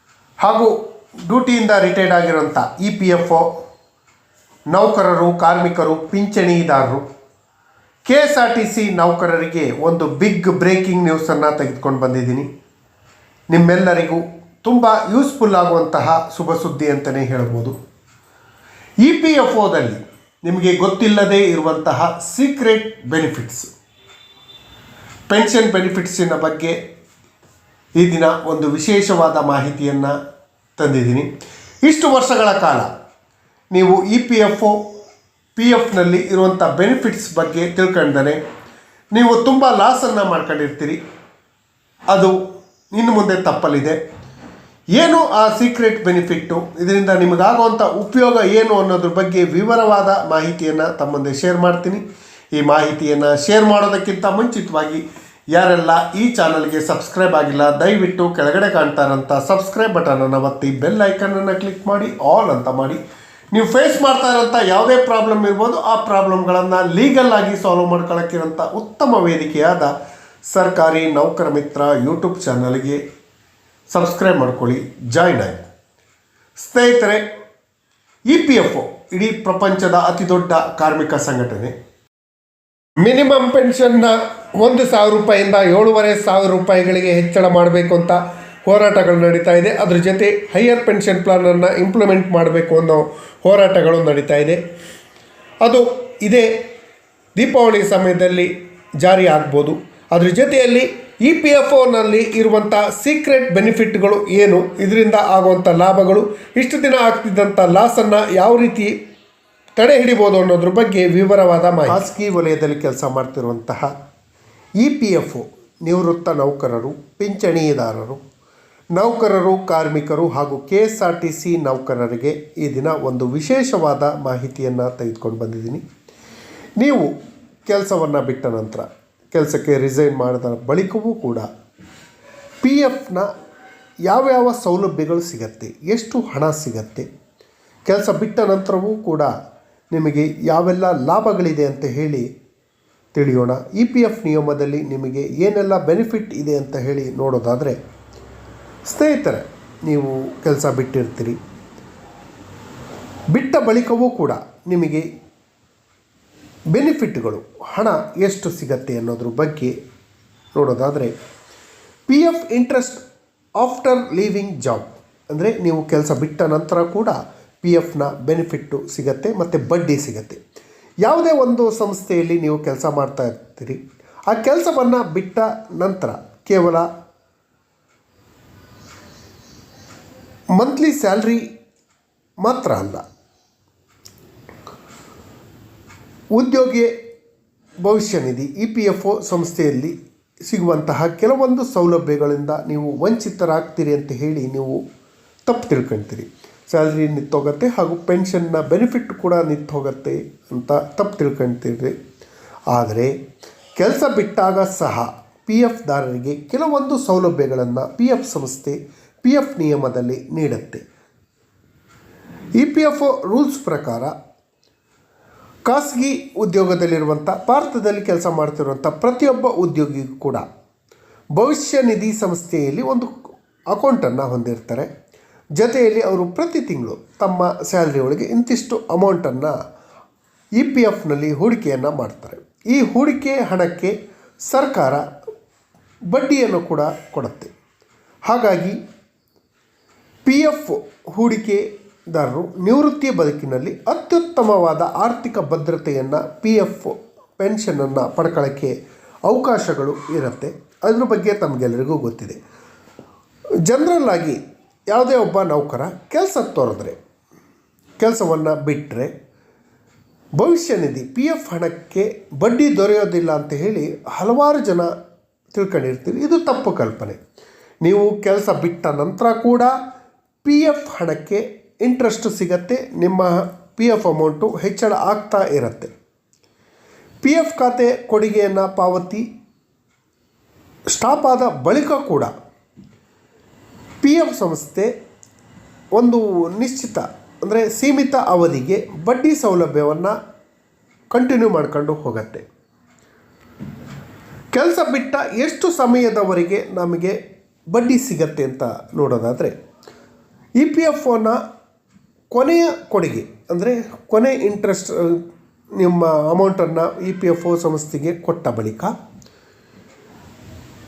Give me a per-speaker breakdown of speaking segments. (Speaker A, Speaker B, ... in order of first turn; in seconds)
Speaker A: 0.4-3.5, 4.7-7.0, 8.1-12.5, 13.5-17.8, 19.0-23.7, 25.3-26.8, 28.0-30.1, 30.8-31.3, 31.8-32.9, 33.7-34.8, 35.5-38.4, 39.1-41.0, 42.1-42.4, 42.9-44.0, 45.0-63.0, 63.5-69.9, 70.5-73.0, 73.9-75.6, 76.6-77.2, 78.3-81.7, 83.0-94.6, 95.6-96.6, 97.3-108.9, 109.8-113.9, 114.8-118.2, 119.0-125.8, 126.8-127.1, 127.7-131.5, 132.6-133.3, 134.1-137.1, 137.9-139.3, 139.9-142.3, 143.1-147.8, 148.9-151.4, 153.3-155.0, 156.7-159.7, 160.5-161.1, 162.1-163.0, 163.6-170.4, 171.0-176.8, 180.6-181.4, 182.4-183.0, 186.3-186.9, 187.8-189.9, 190.5-194.8, 195.5-201.9, 202.7-203.1, 203.8-210.8, 212.6-214.1, 215.7-220.4, 221.3-223.1, 223.7-224.9, 225.6-229.5, 230.6-233.9, 234.5-235.0, 236.1-237.5, 238.3-238.8, 240.2-248.7, 249.3-252.4, 253.7-254.4, 254.9-257.0, 258.0-259.1, 260.4-264.9, 265.5-267.2, 267.8-269.7, 270.4-275.9, 277.2-279.2, 280.9-282.3, 284.0-284.9, 285.9-290.1, 291.1-292.4, 294.5-297.2, 297.7-299.5, 300.6-301.4, 302.3-305.2, 305.8-308.9